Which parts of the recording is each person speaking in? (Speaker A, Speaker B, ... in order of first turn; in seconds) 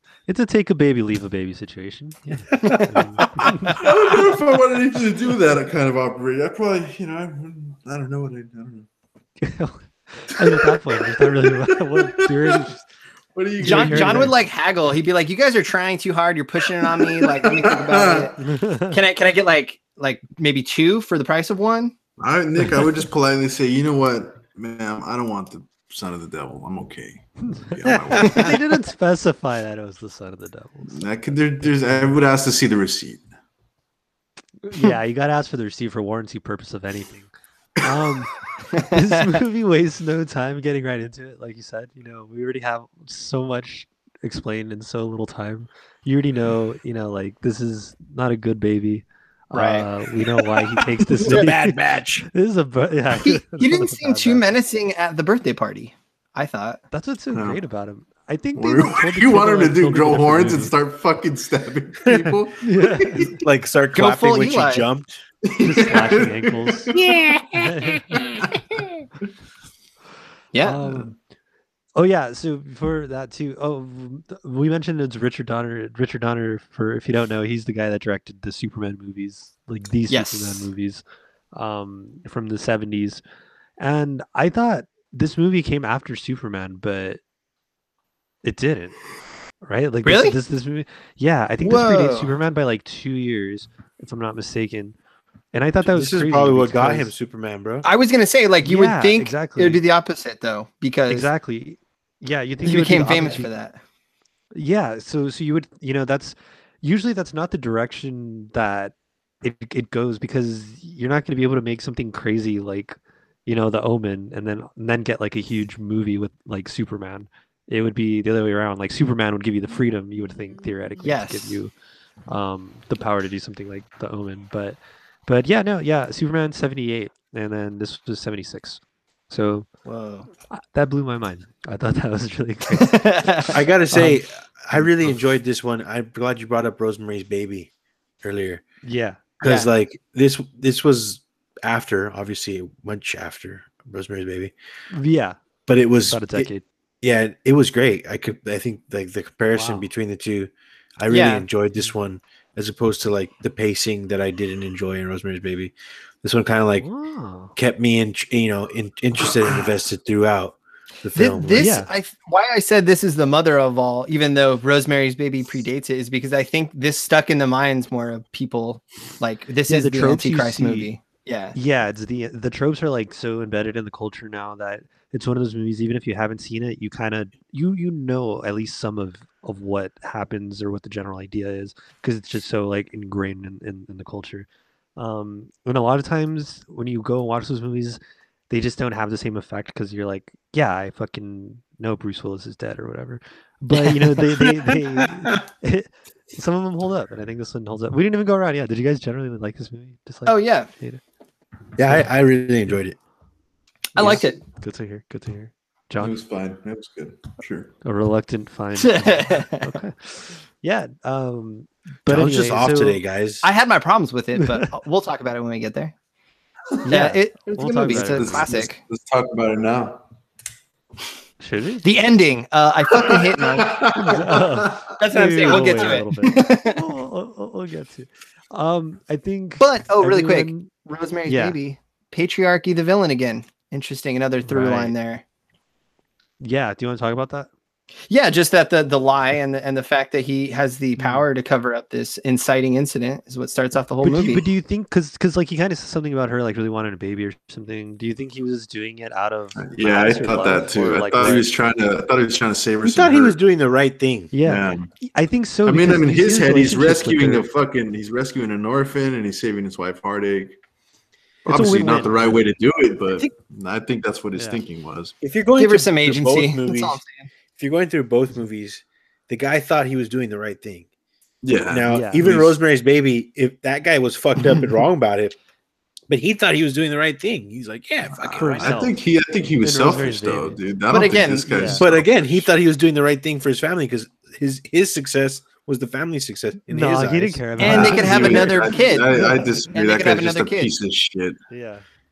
Speaker A: 0.3-3.8, 9.4-12.8, 13.6-14.3, 18.4-19.0, 27.5-31.1, 34.7-37.3, 37.8-54.4, 56.9-60.7, 62.6-63.4, 65.6-66.9, 67.5-68.2, 70.6-71.1, 72.0-83.2, 83.8-87.2, 88.4-89.0, 89.6-95.0, 95.5-97.1, 98.6-99.8, 101.1-103.5, 104.5-121.7, 122.3-129.7, 130.5-134.2, 138.8-139.2, 144.9-145.4, 146.1-146.6, 149.5-149.8, 156.8-157.5, 161.6-161.9, 169.7-170.9, 171.5-201.0, 203.9-206.2, 207.8-213.0, 214.4-214.6, 216.8-218.5, 221.4-221.8, 223.9-230.7, 231.3-231.6, 234.4-234.9, 236.4-237.5, 241.0-241.2, 244.0-251.5, 254.3-257.4, 261.5-262.4, 264.3-264.6, 271.9-272.3, 278.3-278.9, 279.6-280.6, 281.5-281.8, 286.7-288.7, 291.5-291.8
Speaker B: 2.6-3.8, 13.6-18.4, 18.9-21.9, 38.7-39.2, 49.5-49.9, 53.2-56.8, 63.9-64.9, 70.5-70.8, 80.1-80.7, 90.0-90.4, 91.6-92.3, 97.8-101.3, 102.6-103.8, 121.0-121.6, 132.8-133.6, 139.4-139.7, 151.1-151.4, 161.1-171.6, 200.2-200.7, 203.9-204.4, 208.8-209.7, 213.4-215.9, 216.8-218.8, 221.8-223.8, 225.0-226.8, 229.6-235.2, 238.1-244.4, 265.6-267.3, 280.9-281.8, 287.6-290.7
Speaker C: 3.7-8.9, 10.4-12.7, 13.3-14.3, 16.8-18.3, 22.2-28.6, 30.9-33.3, 57.3-57.6, 58.5-63.4, 65.4-67.1, 206.0-207.7, 217.9-220.0, 222.9-224.9, 225.5-225.9, 249.6-253.3, 254.4-254.9, 255.7-260.6, 261.4-265.1, 271.4-272.6, 278.2-282.5, 287.6-291.4
Speaker D: 27.9-28.6, 50.2-52.3, 62.0-62.4, 63.4-65.2, 66.9-67.6, 95.8-97.8, 129.8-130.3, 133.5-137.7, 138.2-138.6, 139.4-144.5, 145.7-146.5, 147.0-156.9, 157.6-161.7, 194.2-195.3, 201.8-202.9, 212.1-213.4, 252.8-254.3, 265.2-267.0, 267.6-270.9, 271.7-275.4, 276.1-278.8, 281.8-287.9